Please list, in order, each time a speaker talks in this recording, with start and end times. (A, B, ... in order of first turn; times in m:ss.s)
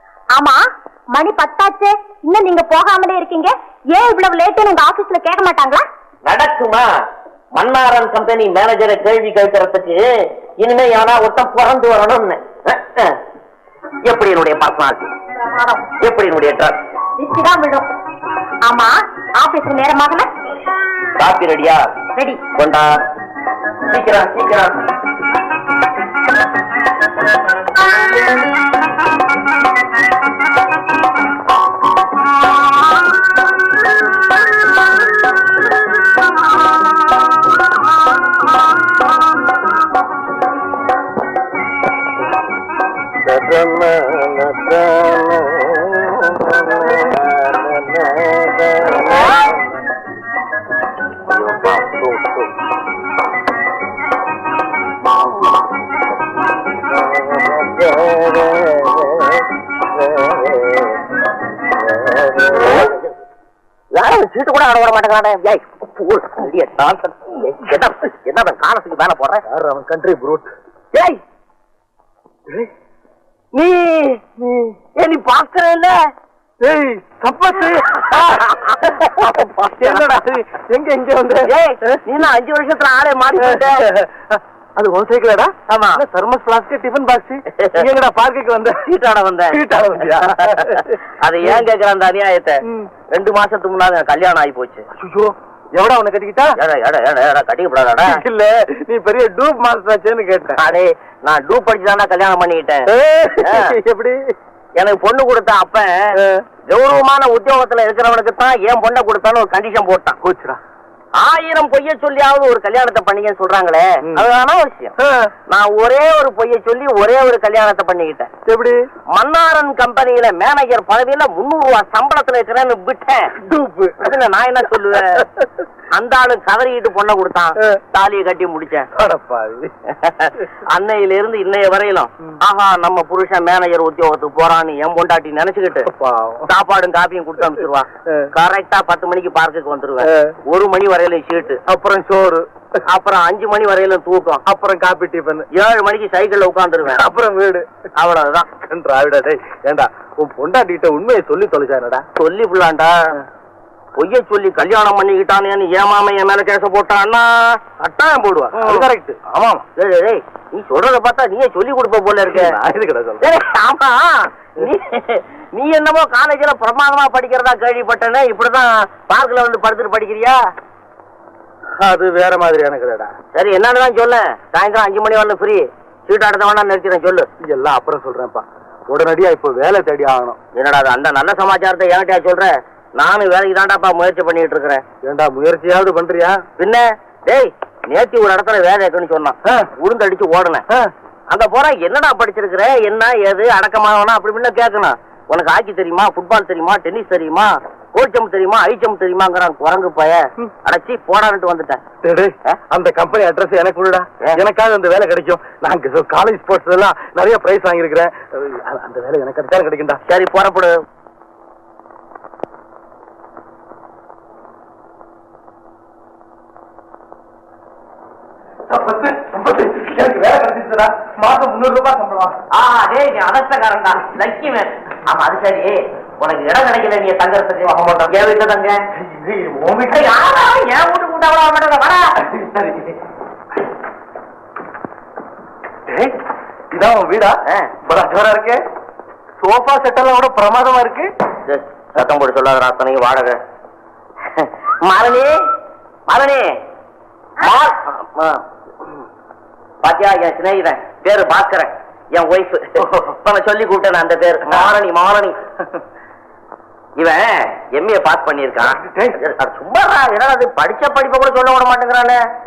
0:00.3-0:00.6 A
0:01.1-0:05.8 A
0:06.2-0:06.9 B
0:07.5-0:13.2 B
0:14.0-0:15.1 B
0:15.5-0:15.8 A
0:16.0-0:16.8 B
0:17.2-0:17.9 A
0:18.6-0:20.3 A
0:21.2-0:21.9 B
0:22.2-0:22.4 A
0:22.5-0:23.0 B
0:23.9-0:24.9 B
0:43.2-0:49.7 B
0:51.3-0:52.5 B
0:55.1-0:55.4 B
0:57.1-1:00.9 B
1:01.8-1:03.0 B
1:03.9-1:09.4 B
1:09.5-1:10.5 C
1:10.9-1:11.2 B
1:13.5-1:16.0 B
1:16.6-1:19.1 C
1:18.1-1:20.2 B
1:19.7-1:21.5 C
1:21.4-1:23.9 B
1:23.5-1:28.8 C
1:25.7-1:26.0 B
1:27.6-1:27.8 B
1:28.7-1:34.8 B
1:29.5-1:31.0 C
1:35.0-1:36.6 C
1:36.6-1:38.2 B
1:38.0-1:40.6 C
1:40.6-1:42.9 B
1:42.9-1:44.3 C
1:43.4-1:43.7 B
1:44.8-1:46.1 B
1:46.2-1:46.4 C
1:46.7-1:50.2 B
1:50.2-1:50.6 C
1:51.2-1:54.9 B
1:55.0-1:55.3 C
1:55.5-1:58.3 B
1:58.4-1:58.8 C
1:59.1-2:03.4 B
2:03.4-2:04.0 C
2:04.0-2:05.3 B
2:05.9-2:08.9 B
2:09.0-2:09.7 C
2:09.9-2:15.9 B
2:15.9-2:16.5 C
2:16.4-2:21.6 B
2:20.0-2:20.3 C
2:21.7-2:22.4 C
2:22.8-2:24.4 B
2:24.4-2:25.5 C
2:25.5-2:27.1 B
2:26.9-2:27.7 C
2:28.0-2:28.6 B
2:28.6-2:32.0 C
2:32.2-2:33.1 B
2:34.0-2:37.6 B
2:37.8-2:39.6 C
2:38.5-2:38.9 B
2:39.8-2:42.6 B
2:42.3-2:43.2 C
2:43.2-2:50.5 B
2:51.8-2:53.1 C
2:53.3-2:57.3 B
2:57.4-3:00.4 C
3:00.5-3:04.8 B
3:05.0-3:06.4 C
3:06.6-3:10.6 B
3:11.3-3:21.8 B
3:22.0-3:30.0 C
3:30.1-3:30.8 B
3:38.7-3:42.4 C
3:42.5-3:48.8 B
3:47.6-3:48.1 C
3:49.0-3:50.1 C
3:49.9-3:52.0 B
3:52.3-3:52.9 C
3:55.9-3:56.1 C
3:56.7-3:58.6 C
3:57.4-3:57.7 B
3:59.4-4:01.1 C
4:01.5-4:03.4 B
4:04.3-4:05.4 B
4:06.1-4:06.5 B
4:07.4-4:08.4 B
4:09.8-4:15.4 B
4:17.0-4:22.2 B
4:18.8-4:19.2 C